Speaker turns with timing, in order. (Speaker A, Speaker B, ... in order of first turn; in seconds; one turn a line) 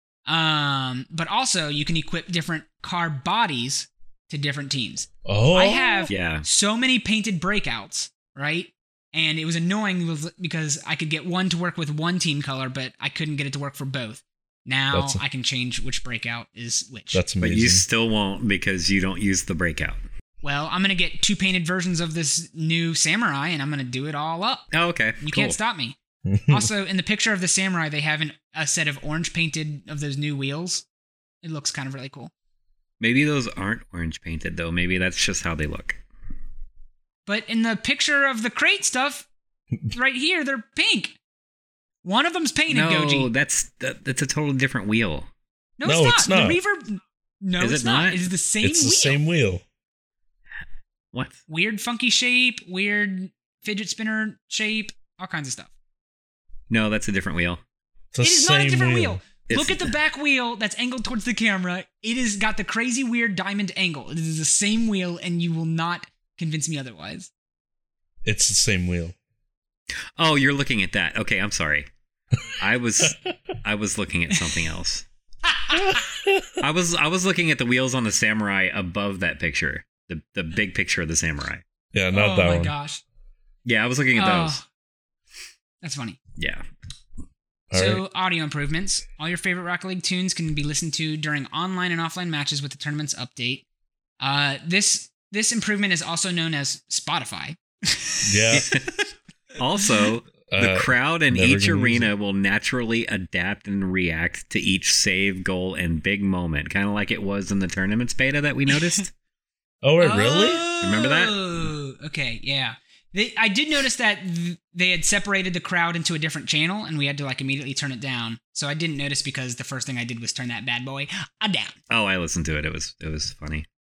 Speaker A: 0.3-17.2
Speaker B: 5.2-6.1
Speaker C: 6.1-6.4
Speaker B: 14.9-15.2
Speaker B: 17.1-17.8
Speaker C: 17.4-20.0
Speaker A: 20.4-24.7
Speaker C: 24.7-25.6
Speaker A: 25.2-26.0
Speaker B: 26.2-26.7
Speaker A: 26.5-30.8
Speaker A: 31.4-32.3
Speaker C: 33.0-36.0
Speaker A: 37.2-39.3
Speaker A: 39.9-41.1
Speaker A: 42.0-43.3
Speaker C: 42.7-45.3
Speaker A: 45.8-49.2
Speaker B: 45.8-46.6
Speaker C: 47.6-48.2
Speaker B: 48.6-49.6
Speaker C: 51.1-51.4
Speaker A: 51.5-55.7
Speaker C: 56.7-57.6
Speaker B: 58.1-59.2
Speaker A: 58.2-67.3
Speaker C: 59.5-59.9
Speaker B: 68.2-69.1
Speaker C: 70.2-71.9
Speaker C: 72.6-75.0
Speaker A: 75.4-76.0
Speaker B: 75.8-76.5
Speaker C: 76.6-81.6
Speaker B: 81.9-82.7
Speaker A: 82.1-83.0
Speaker C: 83.6-84.6
Speaker A: 84.1-84.6
Speaker A: 85.8-86.2
Speaker C: 86.4-86.6
Speaker B: 87.7-88.0
Speaker A: 87.7-93.6
Speaker A: 94.2-98.8
Speaker B: 98.2-98.7
Speaker C: 98.5-98.8
Speaker C: 99.6-109.1
Speaker B: 100.5-102.1
Speaker A: 108.7-109.0
Speaker B: 109.8-110.6
Speaker A: 110.0-121.8
Speaker C: 110.8-111.4
Speaker C: 121.9-123.7